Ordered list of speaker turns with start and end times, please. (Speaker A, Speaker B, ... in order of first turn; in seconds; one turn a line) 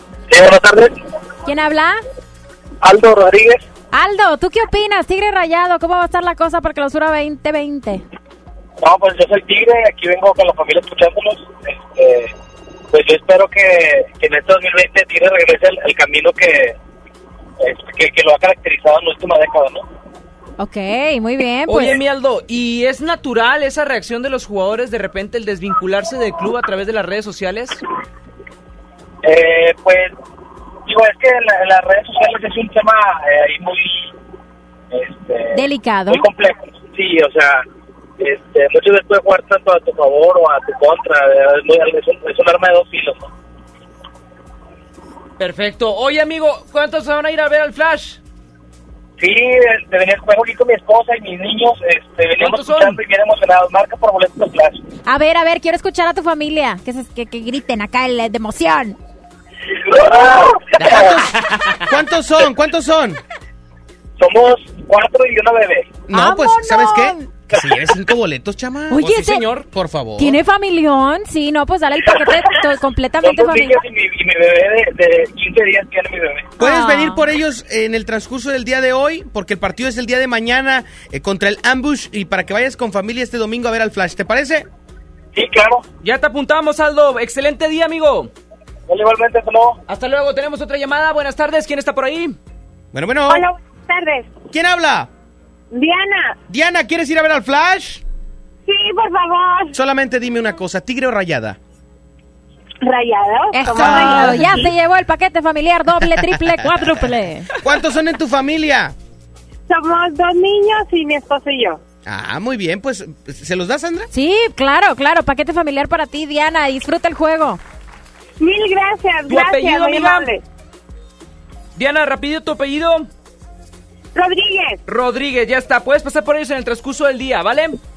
Speaker A: 0.3-1.0
Speaker B: 1.4-2.0
Speaker A: 2.8-3.6
Speaker B: 3.9-8.0
Speaker A: 8.8-12.3
Speaker A: 12.9-16.7
Speaker A: 17.6-19.8
Speaker B: 20.6-22.0
Speaker C: 21.7-27.8
Speaker A: 29.2-30.1
Speaker A: 30.9-34.1
Speaker A: 34.9-35.6
Speaker B: 35.5-36.2
Speaker A: 36.1-37.6
Speaker A: 38.2-43.2
Speaker C: 45.4-48.2
Speaker A: 49.2-54.8
Speaker C: 52.4-53.0
Speaker B: 55.0-59.0
Speaker A: 59.8-61.2
Speaker D: 61.9-63.2
Speaker A: 64.2-66.0
Speaker D: 66.1-69.1
Speaker B: 66.1-67.2
Speaker B: 68.9-69.6
Speaker C: 69.0-69.6
Speaker D: 69.6-70.4
Speaker B: 70.2-73.8
Speaker A: 73.2-76.5
Speaker D: 76.6-84.7
Speaker B: 76.6-77.2
Speaker A: 85.3-85.8
Speaker C: 86.0-88.3
Speaker A: 88.9-89.8
Speaker C: 89.9-92.3
Speaker D: 92.9-93.5
Speaker E: 93.3-94.3
Speaker D: 94.5-95.1
Speaker E: 95.7-96.4
Speaker D: 96.5-98.0
Speaker E: 98.7-99.7
Speaker D: 99.7-101.6
Speaker E: 102.8-104.6
Speaker B: 103.5-107.5
Speaker D: 103.8-104.7
Speaker D: 106.1-106.7
Speaker D: 107.6-108.9
Speaker E: 109.7-111.8
Speaker D: 112.0-114.1
Speaker B: 114.1-117.6
Speaker E: 118.4-120.4
Speaker C: 119.3-120.3
Speaker C: 121.8-123.1
Speaker E: 124.1-124.8
Speaker C: 124.9-127.8